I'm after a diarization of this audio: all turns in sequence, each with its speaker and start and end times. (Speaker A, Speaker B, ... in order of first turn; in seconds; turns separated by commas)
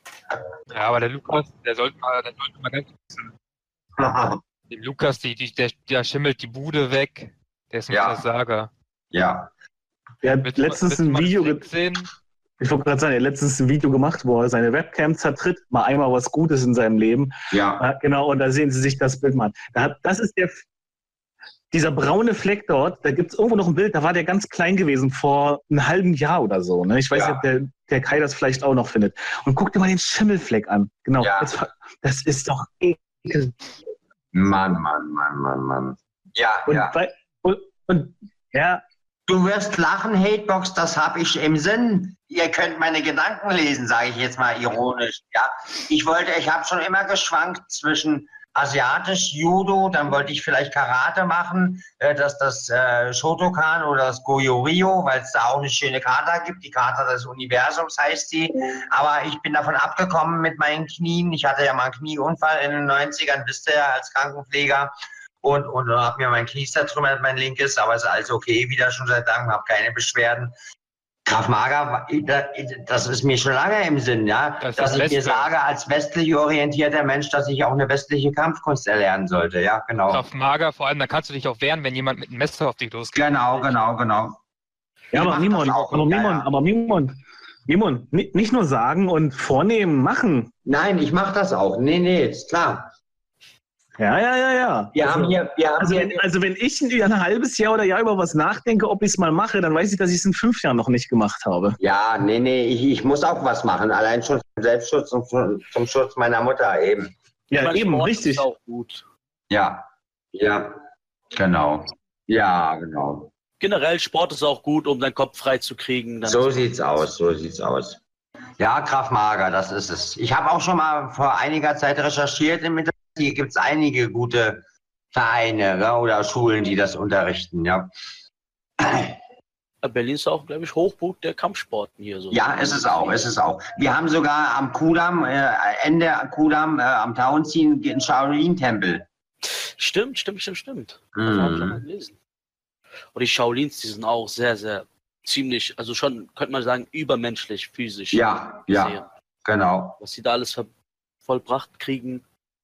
Speaker A: 0.7-3.3, Speaker B: 4.0-4.4, Speaker A: 4.7-8.7, Speaker B: 7.9-8.2, Speaker B: 9.1-9.5, Speaker C: 10.2-11.7, Speaker A: 10.4-12.1, Speaker C: 12.6-20.6, Speaker B: 17.5-17.9, Speaker C: 21.7-33.7, Speaker B: 27.1-27.4, Speaker B: 31.2-31.5, Speaker B: 34.3-37.0, Speaker C: 36.7-38.8, Speaker B: 39.3-64.9, Speaker B: 65.4-70.5, Speaker B: 71.3-80.2, Speaker A: 74.6-75.5, Speaker A: 80.1-83.8, Speaker B: 83.1-84.4, Speaker B: 85.1-86.5, Speaker C: 85.1-87.2, Speaker C: 87.7-90.5, Speaker B: 90.7-92.9, Speaker C: 94.0-101.8, Speaker B: 94.9-96.2, Speaker B: 101.8-107.1, Speaker C: 107.5-108.5, Speaker D: 107.6-109.0, Speaker B: 109.5-113.3, Speaker D: 113.6-117.1, Speaker B: 116.2-118.0, Speaker B: 118.6-127.9, Speaker B: 128.8-129.1, Speaker D: 129.8-133.3, Speaker B: 132.3-139.1, Speaker D: 139.8-142.2, Speaker B: 141.2-141.8, Speaker D: 143.1-149.1, Speaker B: 148.1-150.0, Speaker D: 150.0-150.7, Speaker D: 151.2-152.2